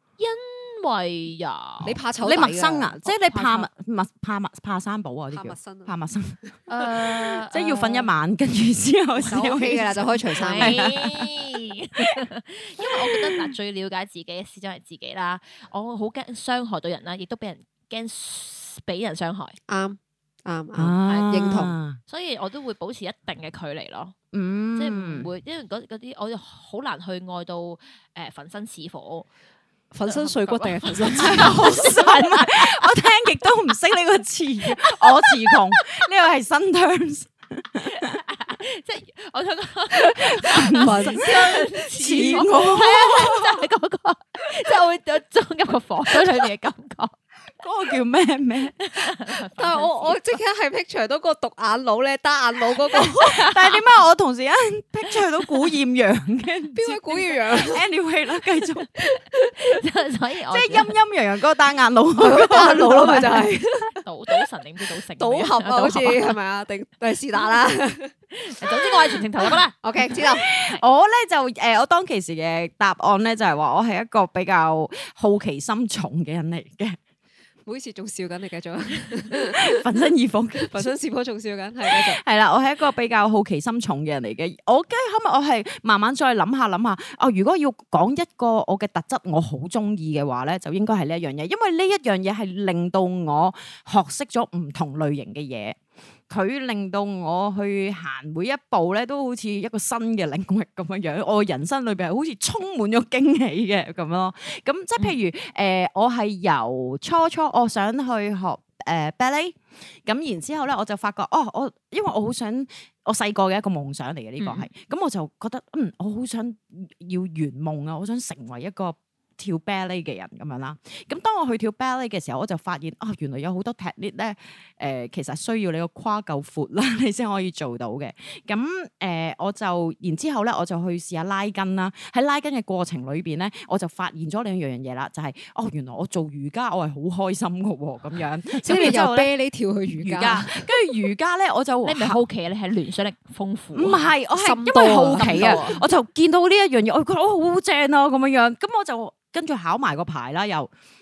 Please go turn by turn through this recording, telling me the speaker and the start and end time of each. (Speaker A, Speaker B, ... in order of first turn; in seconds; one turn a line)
Speaker A: 0.2-2.0
Speaker B: 1.8-3.0
Speaker C: 2.2-11.4
Speaker A: 3.1-3.7
Speaker B: 5.3-5.9
Speaker A: 6.7-8.1
Speaker B: 9.2-10.8
Speaker A: 10.4-19.6
Speaker C: 13.1-13.4
Speaker B: 19.7-21.8
Speaker C: 20.8-22.0
Speaker A: 21.1-21.5
Speaker A: 22.1-24.1
Speaker C: 24.3-25.3
Speaker A: 24.8-29.3
Speaker B: 29.9-32.0
Speaker A: 30.1-32.9
Speaker C: 31.1-38.2
Speaker A: 34.7-35.9
Speaker A: 37.8-47.1
Speaker C: 40.4-41.3
Speaker B: 40.7-42.5
Speaker C: 42.0-43.6
Speaker C: 47.6-48.7
Speaker A: 48.8-50.4
Speaker B: 49.5-53.4
Speaker C: 52.9-58.9
Speaker A: 53.2-53.8
Speaker B: 56.7-57.9
Speaker B: 59.0-59.5
Speaker A: 59.5-60.9
Speaker C: 60.5-63.5
Speaker B: 62.2-64.3
Speaker A: 64.0-66.3
Speaker B: 65.2-68.1
Speaker A: 68.3-70.7
Speaker B: 69.8-70.5
Speaker C: 70.1-77.0
Speaker B: 77.7-79.8
Speaker C: 79.4-80.9
Speaker B: 80.6-82.2
Speaker C: 81.9-95.8
Speaker C: 96.3-139.3
Speaker A: 114.4-114.7
Speaker B: 138.6-140.7
Speaker C: 139.9-142.2
Speaker A: 141.8-144.1
Speaker C: 143.7-150.7
Speaker B: 144.3-145.7
Speaker A: 145.2-145.8